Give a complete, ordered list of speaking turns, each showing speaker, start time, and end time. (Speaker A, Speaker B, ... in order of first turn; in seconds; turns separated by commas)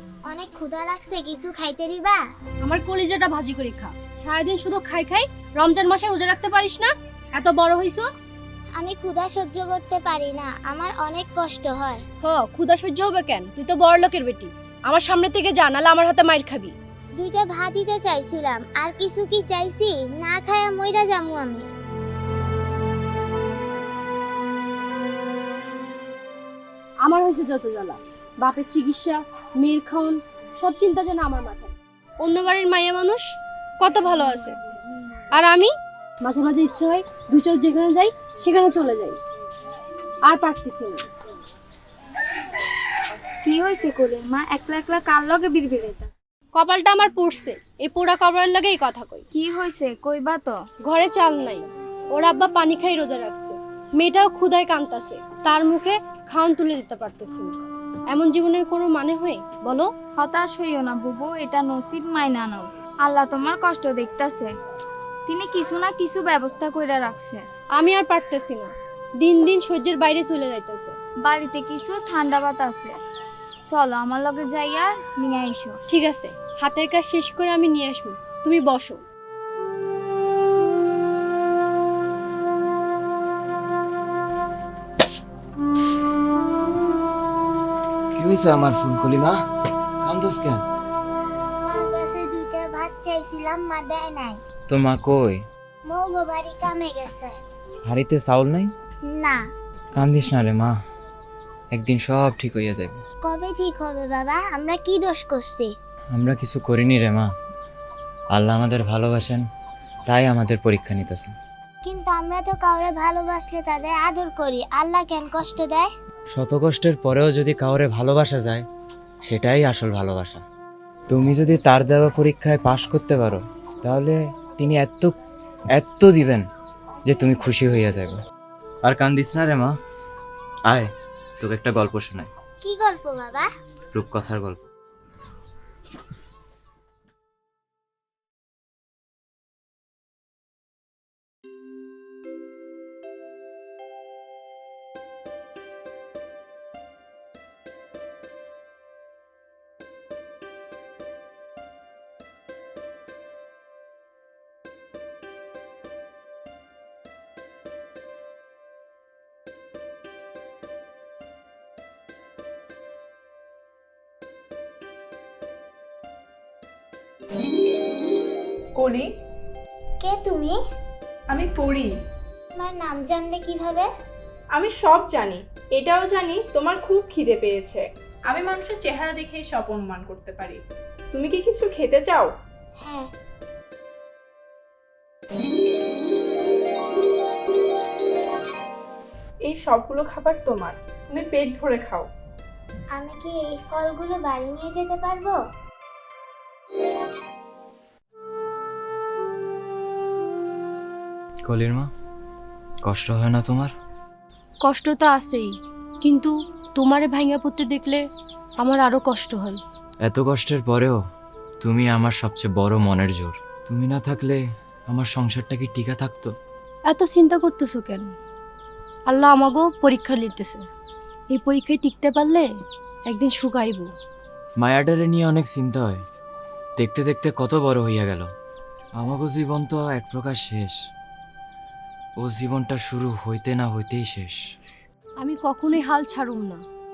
Speaker A: 0.3-2.2, Speaker B: 2.6-8.1, Speaker A: 8.8-12.0, Speaker B: 12.2-16.7, Speaker A: 17.1-21.6, Speaker B: 27.0-34.6, Speaker B: 35.3-39.2, Speaker B: 40.2-41.1, Speaker C: 43.4-46.1, Speaker B: 46.5-49.2, Speaker C: 49.3-50.6, Speaker B: 50.9-57.5, Speaker B: 58.1-59.9, Speaker C: 60.2-64.5, Speaker C: 65.3-67.4, Speaker B: 67.8-71.0, Speaker C: 71.2-72.9, Speaker C: 73.7-75.8, Speaker B: 75.9-79.0, Speaker D: 88.2-89.4, Speaker D: 90.0-90.6, Speaker A: 91.7-94.4, Speaker D: 94.7-95.4, Speaker A: 95.9-97.4, Speaker D: 97.8-98.7, Speaker A: 99.1-99.4, Speaker D: 99.9-100.8, Speaker D: 101.7-103.0, Speaker A: 103.2-105.7, Speaker D: 106.1-107.3, Speaker D: 108.3-109.5, Speaker D: 110.1-111.3, Speaker A: 111.8-115.9, Speaker D: 116.3-118.7, Speaker D: 119.2-120.4, Speaker D: 121.1-125.1, Speaker D: 125.7-126.5, Speaker D: 127.0-128.2, Speaker D: 128.8-129.7, Speaker D: 130.7-132.3, Speaker A: 132.6-133.5, Speaker D: 133.9-134.6, Speaker E: 168.8-169.1, Speaker A: 170.0-170.6, Speaker E: 171.3-171.9, Speaker A: 172.6-173.9, Speaker E: 174.5-180.6, Speaker E: 181.1-182.3, Speaker A: 182.8-183.1, Speaker E: 189.4-192.1, Speaker A: 192.9-195.4, Speaker D: 201.4-201.9, Speaker D: 202.8-203.7, Speaker B: 204.6-208.0, Speaker B: 208.6-209.6, Speaker D: 210.0-211.0, Speaker D: 211.6-216.3, Speaker B: 216.9-218.1, Speaker B: 219.1-220.6, Speaker B: 221.3-222.5, Speaker B: 223.1-223.9, Speaker D: 224.6-226.0, Speaker D: 226.8-228.3, Speaker D: 229.0-230.8, Speaker D: 232.2-234.4, Speaker B: 235.2-236.6